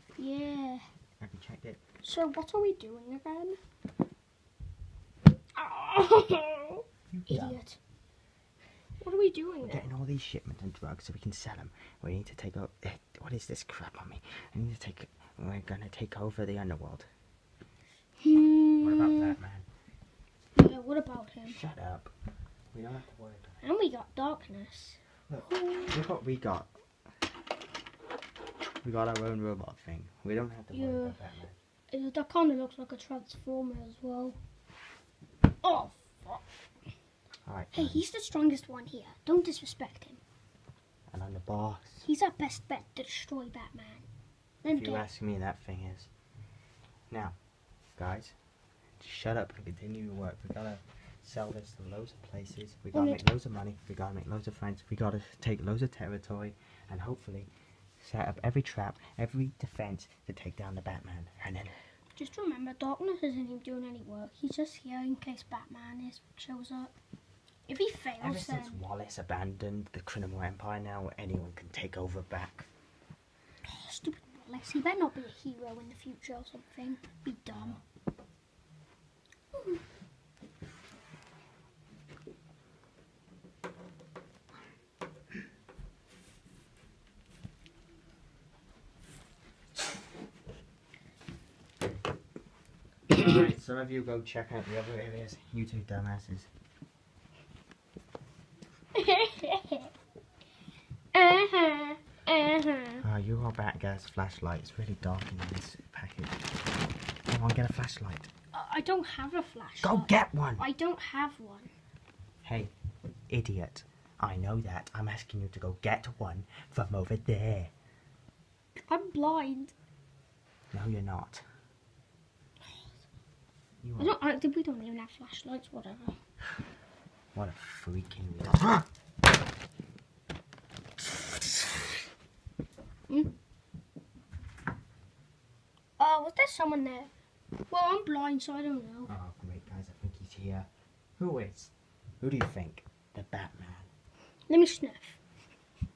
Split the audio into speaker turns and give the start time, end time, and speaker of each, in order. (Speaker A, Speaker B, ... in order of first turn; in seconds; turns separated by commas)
Speaker A: 0.2-0.8, Speaker B: 1.2-1.8, Speaker A: 2.0-3.6, Speaker A: 5.6-7.8, Speaker B: 7.1-7.6, Speaker A: 9.0-9.8, Speaker B: 9.6-17.1, Speaker A: 18.2-19.4, Speaker B: 18.8-19.7, Speaker A: 20.6-21.6, Speaker B: 21.5-22.1, Speaker B: 22.7-23.6, Speaker A: 23.6-25.9, Speaker B: 25.3-26.7, Speaker B: 28.8-31.6, Speaker A: 30.7-31.2, Speaker A: 31.9-34.4, Speaker A: 35.6-36.4, Speaker B: 37.5-38.0, Speaker A: 37.7-40.2, Speaker B: 41.1-42.1, Speaker A: 42.1-44.1, Speaker A: 44.6-45.0, Speaker B: 44.7-46.1, Speaker B: 47.1-47.4, Speaker B: 48.0-48.4, Speaker B: 49.0-61.8, Speaker A: 52.9-53.2, Speaker A: 62.2-66.9, Speaker A: 67.7-68.8, Speaker B: 68.2-72.7, Speaker A: 73.6-77.8, Speaker B: 77.5-77.8, Speaker A: 79.5-79.8, Speaker B: 93.1-96.5, Speaker A: 99.0-99.9, Speaker A: 101.1-103.0, Speaker B: 103.0-106.4, Speaker B: 107.3-108.3, Speaker A: 108.5-111.7, Speaker B: 109.8-110.7, Speaker B: 112.4-112.7, Speaker B: 113.3-117.7, Speaker A: 118.9-119.7, Speaker B: 120.7-121.4, Speaker B: 123.8-124.2, Speaker A: 124.0-126.2, Speaker B: 127.3-128.9, Speaker A: 136.0-137.1, Speaker A: 137.7-139.1, Speaker B: 139.1-143.9, Speaker A: 144.5-145.2